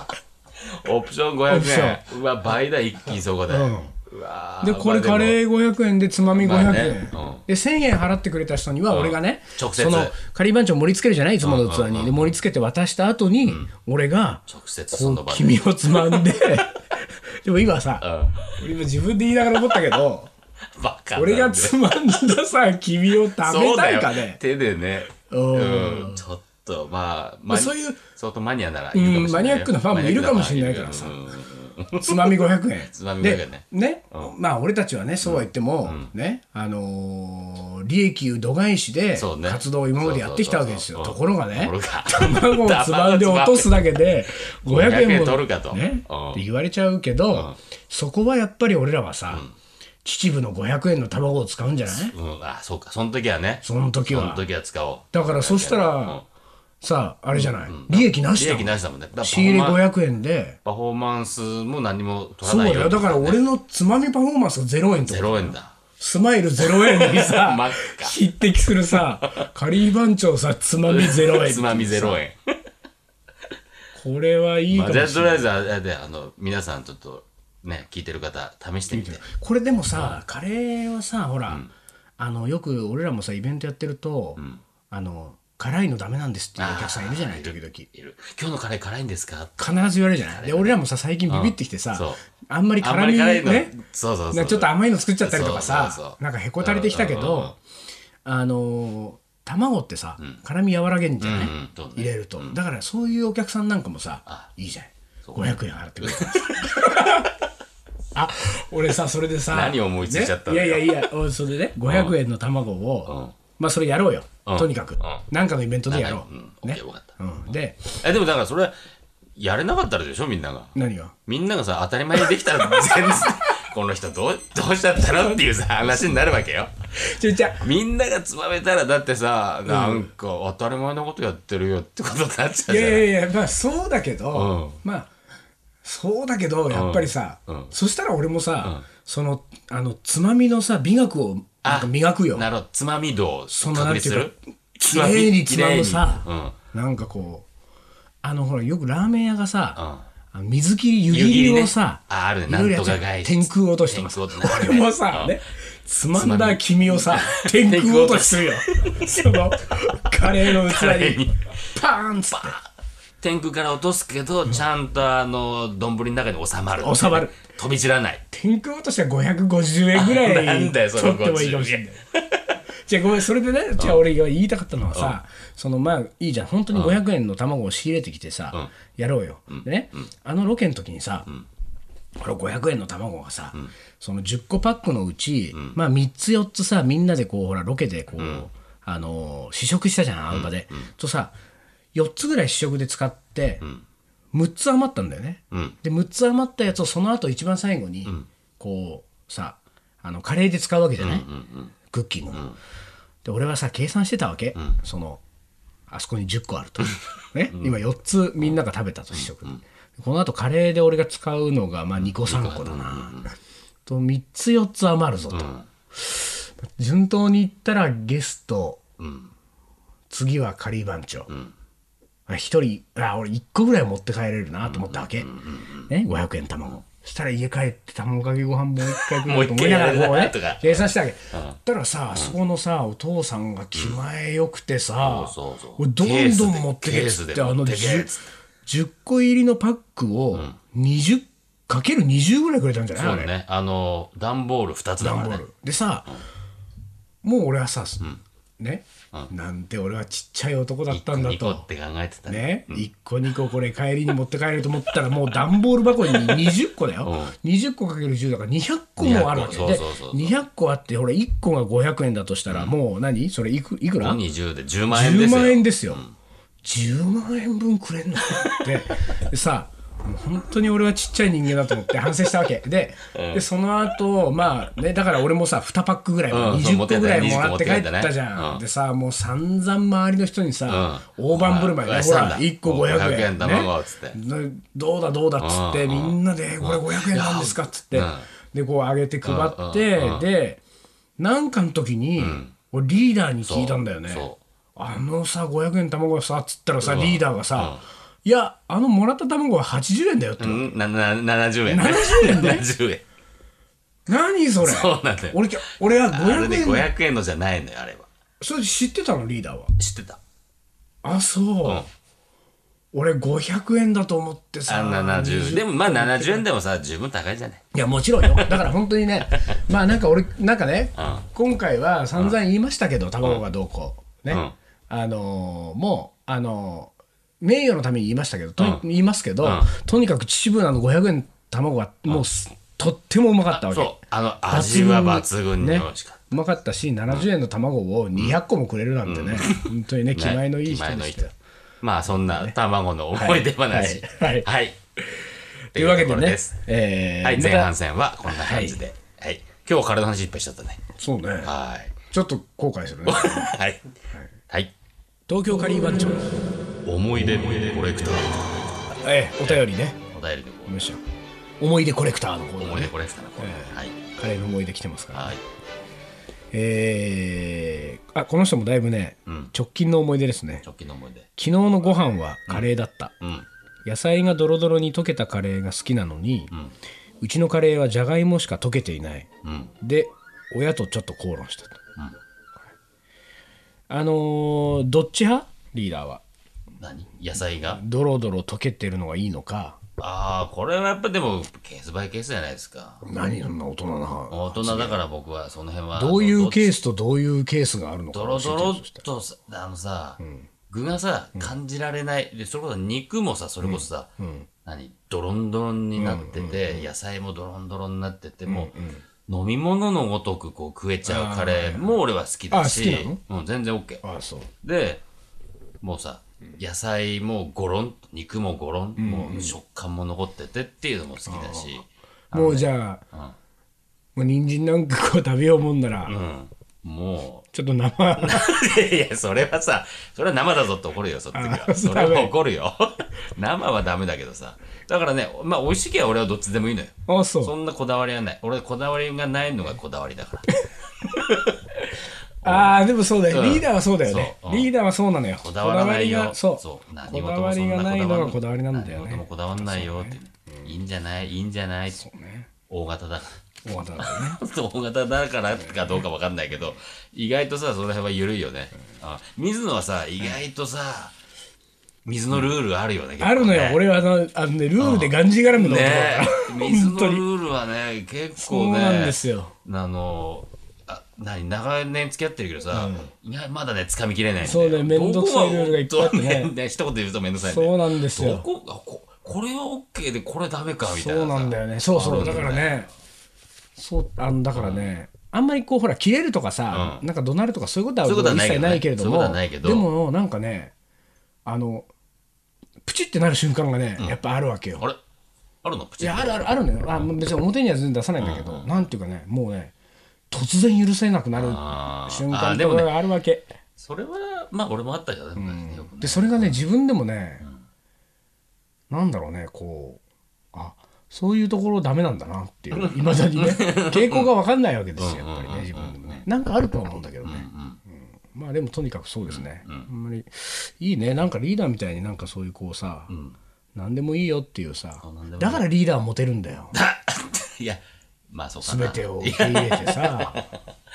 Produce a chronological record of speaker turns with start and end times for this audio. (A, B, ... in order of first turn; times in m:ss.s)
0:00.6-0:05.4 A
0:01.5-0:02.0 B
0:03.5-0:03.9 B
0:04.6-0:20.3 B
0:06.4-0:07.4 A
0:08.9-0:10.2 A
0:11.4-0:12.3 A
0:13.4-0:13.7 A
0:14.5-0:16.5 A
0:18.0-0:18.6 A
0:20.8-0:21.9 A
0:21.2-0:24.4 B
0:23.4-0:34.3 A
0:25.3-0:26.2 B
0:27.5-0:28.0 B
0:28.9-0:31.2 B
0:32.0-0:49.4 B
0:35.2-0:36.1 A
0:39.2-0:43.8 A
0:44.7-0:46.4 A
0:50.0-0:52.1 B
0:51.9-0:56.2 A
0:53.6-0:54.4 B
0:55.1-0:56.2 B
0:56.8-1:00.6 B
0:57.3-0:59.8 A
1:00.6-1:03.4 A
1:02.4-1:12.2 B
1:05.0-1:05.8 A
1:06.6-1:08.2 A
1:08.9-1:09.5 A
1:10.9-1:12.4 A
1:14.0-1:15.5 B
1:14.7-1:19.2 A
1:18.9-1:21.6 B
1:19.9-1:20.2 A
1:22.2-1:24.4 B
1:24.4-1:24.6 A
1:24.9-1:27.9 B
1:26.6-1:32.2 A
1:29.6-1:33.8 B
1:32.8-1:37.6 A
1:34.3-1:37.6 B
1:38.2-1:47.3 B
1:41.2-1:42.6 A
1:45.2-1:47.2 A
1:48.1-1:57.9 B
1:49.5-1:51.1 A
1:51.8-1:52.2 A
1:53.1-1:53.4 A
1:54.5-1:55.2 A
1:55.9-1:57.2 A
1:58.0-1:58.8 A
1:59.4-2:00.8 A
2:00.8-2:01.1 B
2:01.3-2:06.7 A
2:02.2-2:03.5 B
2:05.0-2:05.4 B
2:07.0-2:07.7 B
2:07.6-2:13.1 A
2:09.7-2:10.1 B
2:12.7-2:15.1 B
2:14.3-2:14.8 A
2:15.8-2:22.5 B
2:16.7-2:17.7 A
2:18.6-2:18.9 A
2:21.6-2:26.6 A
2:23.5-2:27.5 B
2:28.2-2:29.8 B
2:29.8-2:30.0 A
2:30.3-2:42.6 B
2:31.1-2:35.4 A
2:36.2-2:39.4 A
2:40.2-2:41.7 A
2:42.3-2:42.6 A
2:43.2-2:48.2 A
2:46.8-2:47.3 B
2:48.3-2:52.0 B
2:49.9-2:52.6 A
2:52.8-3:01.3 B
2:53.8-2:54.0 A
2:56.7-2:57.0 A
2:59.5-3:00.1 A
3:02.2-3:11.4 B
3:08.2-3:08.5 A
3:10.3-3:10.9 A
3:11.9-3:13.6 B
3:14.3-3:21.3 B
3:15.5-3:15.8 A
3:21.0-3:21.7 A
3:21.9-3:22.5 B
3:22.3-3:22.6 A
3:23.2-3:25.2 B
3:25.9-3:33.2 B
3:26.9-3:27.7 A
3:29.1-3:29.6 A
3:32.0-3:33.3 A
3:33.9-3:38.8 B
3:35.3-3:35.7 A
3:39.0-3:39.3 A
3:40.1-3:41.3 B
3:41.3-3:41.5 A
3:42.3-3:45.3 B
3:44.6-3:45.9 A
3:45.9-3:58.1 B
3:48.8-3:51.6 A
3:55.0-3:58.3 A
3:58.6-4:03.3 B
4:03.0-4:05.4 A
4:05.0-4:06.1 B
4:07.2-4:08.0 B
4:08.6-4:11.7 B
4:10.9-4:12.9 A
4:12.3-4:24.2 B
4:17.0-4:17.4 A
4:19.0-4:20.4 A
4:22.5-4:22.8 A
4:24.0-4:26.1 A
4:24.9-4:26.0 B
4:26.6-4:50.6 B
4:33.1-4:33.4 A
4:36.3-4:38.6 A
4:40.7-4:44.2 A
4:45.4-4:48.3 A
4:49.2-4:50.3 A
4:51.2-5:00.7 B
4:52.2-4:52.5 A
4:53.4-4:54.4 A
4:56.8-4:57.8 A
5:00.4-5:03.0 A
5:01.7-5:02.7 B
5:04.1-5:06.9 B
5:04.6-5:08.1 A
5:08.4-5:09.7 B
5:09.8-5:10.2 A
5:11.0-5:11.8 B
5:12.9-5:16.4 B
5:14.7-5:17.6 A
5:17.7-5:34.0 B
5:18.2-5:18.7 A
5:19.3-5:19.6 A
5:21.0-5:21.3 A
5:29.4-5:29.7 A
5:33.5-5:36.4 A
5:34.5-5:41.3 B
5:39.1-5:41.3 A
5:41.8-5:44.8 A
5:42.2-5:42.6 B
5:43.1-5:44.5 B
5:45.0-5:47.7 B
5:45.8-5:46.6 A
5:47.2-5:50.8 A
5:48.2-5:48.8 B
5:51.0-5:53.5 B
5:51.4-5:52.0 A
5:53.1-5:53.9 A
5:55.3-5:56.4 B
5:56.8-5:58.7 A
5:59.0-6:00.0 B
5:59.4-6:00.9 A
6:00.7-6:01.0 B
6:01.6-6:05.3 B
6:02.6-6:04.0 A
6:05.1-6:05.4 A
6:06.5-6:10.6 B
6:09.3-6:09.5 A
6:10.6-6:11.3 A
6:11.4-6:13.1 B
6:13.2-6:13.5 A
6:13.8-6:16.5 B
6:17.2-6:19.3 B
6:19.4-6:19.7 A
6:19.8-6:21.8 B
6:23.9-6:26.2 B
6:26.8-6:27.8 A
6:27.7-6:29.8 B
6:30.0-6:33.1 A
6:33.0-6:35.0 B
6:34.3-6:36.7 A
6:36.0-6:39.0 B
6:38.1-6:44.1 A
6:40.2-6:40.5 B
6:43.6-6:44.5 B
6:44.6-6:48.7 A
6:46.0-6:46.9 B
6:48.5-6:49.0 B
6:49.3-6:54.0 A
6:51.0-6:52.0 B
6:52.5-6:53.2 B
6:54.0-6:54.5 B
6:54.6-6:55.0 A
6:55.8-7:03.4 A
6:59.0-6:59.6 B
7:01.3-7:01.7 B
7:02.3-7:03.0 B
7:04.2-7:06.1 B
7:06.0-7:07.5 A
7:07.5-7:08.5 B
7:08.2-7:20.5 A
7:11.3-7:12.3 B
7:17.1-7:17.5 B
7:21.1-7:21.5 A
7:22.4-7:24.7 A
7:22.4-7:30.7 B
7:25.4-7:32.0 A
7:32.0-7:32.5 B
7:32.7-7:33.4 A
7:33.6-7:34.4 B
7:34.0-7:41.1 A
7:42.0-7:43.8 A
7:43.2-7:47.2 B
7:44.8-8:02.8 A
7:48.4-7:49.5 B
7:52.7-7:53.1 B
7:54.4-7:56.5 B
7:57.4-7:58.5 B
8:00.9-8:02.9 B
8:03.8-8:10.7 B
8:04.5-8:04.9 A
8:06.7-8:07.0 A
8:08.0-8:09.9 A
8:11.4-8:11.9 B
8:12.8-8:14.8 B
8:15.6-8:17.1 A
8:16.0-8:19.7 B
8:18.2-8:18.9 A
8:20.3-8:23.5 B
8:21.4-8:23.0 A
8:23.8-8:26.6 A
8:25.4-8:27.4 B
8:28.9-8:30.0 B
8:30.5-8:43.1 B
8:32.7-8:34.3 A
8:35.0-8:36.2 A
8:37.2-8:37.8 A
8:39.3-8:39.9 A
8:43.1-8:43.4 A
8:43.8-8:46.7 B
8:45.0-8:45.6 A
8:46.7-8:47.8 A
8:48.3-8:50.6 A
8:48.6-8:50.4 B